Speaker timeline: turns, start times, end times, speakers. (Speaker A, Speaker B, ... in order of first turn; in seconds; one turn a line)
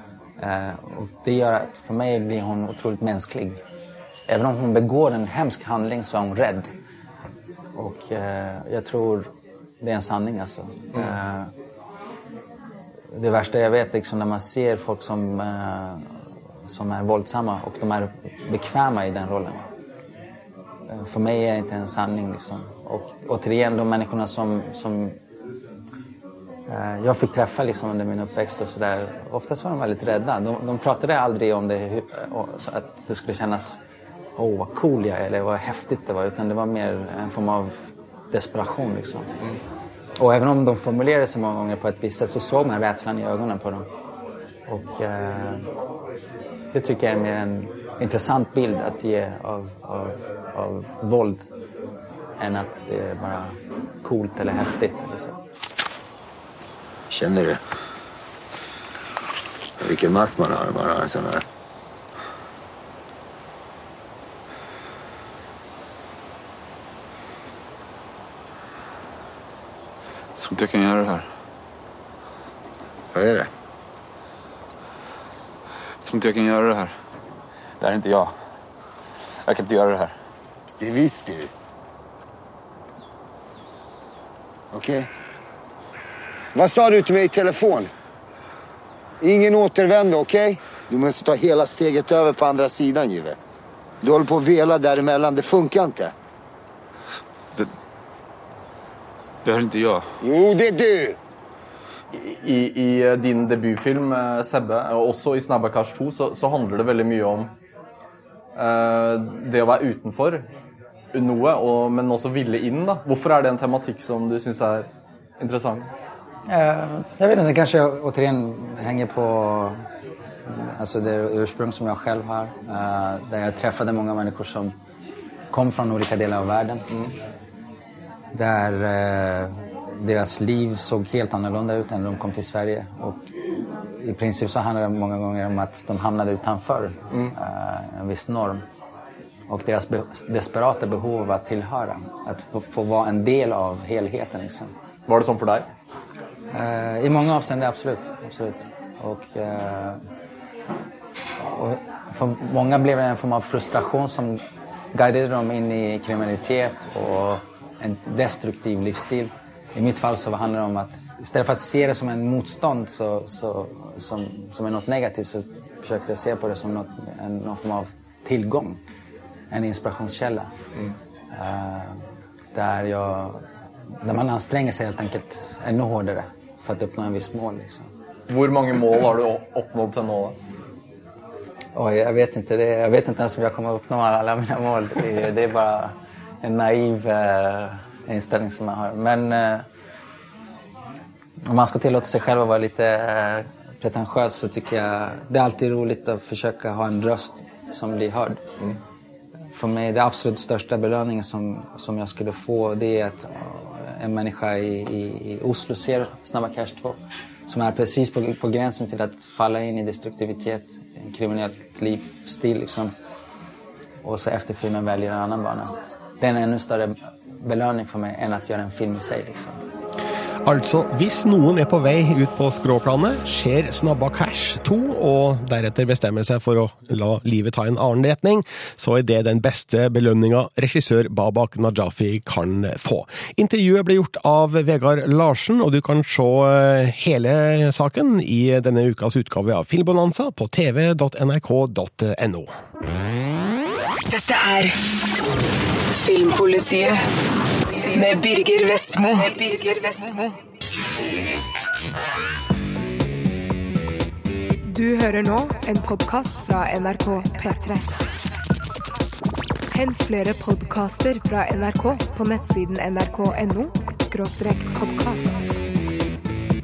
Speaker A: 0.4-3.6
Speaker A: 4.3-6.7
Speaker A: 7.8-9.3
Speaker A: 9.8-11.5
Speaker A: 13.1-16.1
Speaker A: 16.7-19.6
Speaker A: 20.9-25.1
Speaker A: 26.7-33.8
Speaker A: 34.4-37.7
Speaker A: 38.3-39.3
Speaker A: 40.2-43.8
Speaker A: 44.7-45.6
Speaker A: 46.7-51.4
Speaker A: 52.4-55.3
Speaker B: 57.1-57.6
Speaker B: 59.8-61.4
Speaker C: 70.3-71.3
Speaker B: 73.1-73.5
Speaker C: 76.0-77.0
Speaker C: 77.8-78.4
Speaker C: 79.4-80.1
Speaker B: 80.8-81.5
Speaker B: 84.7-85.1
Speaker B: 86.5-87.9
Speaker B: 89.2-93.4
Speaker B: 94.0-96.1
Speaker C: 99.4-100.2
Speaker B: 100.2-101.2
Speaker D: 102.1-107.5
Speaker D: 108.5-110.5
Speaker D: 111.1-114.9
Speaker D: 115.4-115.9
Speaker A: 116.5-119.8
Speaker A: 120.6-124.7
Speaker A: 125.5-126.8
Speaker D: 126.9-127.1
Speaker A: 128.3-133.3
Speaker A: 133.8-138.6
Speaker A: 139.5-144.7
Speaker D: 145.1-145.7
Speaker A: 146.5-150.0
Speaker A: 151.4-154.4
Speaker A: 154.9-168.8
Speaker A: 169.5-170.5
Speaker A: 171.3-172.0
Speaker A: 172.5-173.4
Speaker A: 174.0-177.8
Speaker D: 178.3-180.3
Speaker A: 181.8-189.6
Speaker A: 191.4-198.4
Speaker A: 199.5-206.9
Speaker A: 207.5-212.9
Speaker A: 214.0-219.6
Speaker E: 220.4-242.5
Speaker F: 244.1-245.1
Speaker F: 245.9-250.3
Speaker G: 254.7-258.0
Speaker G: 259.7-265.3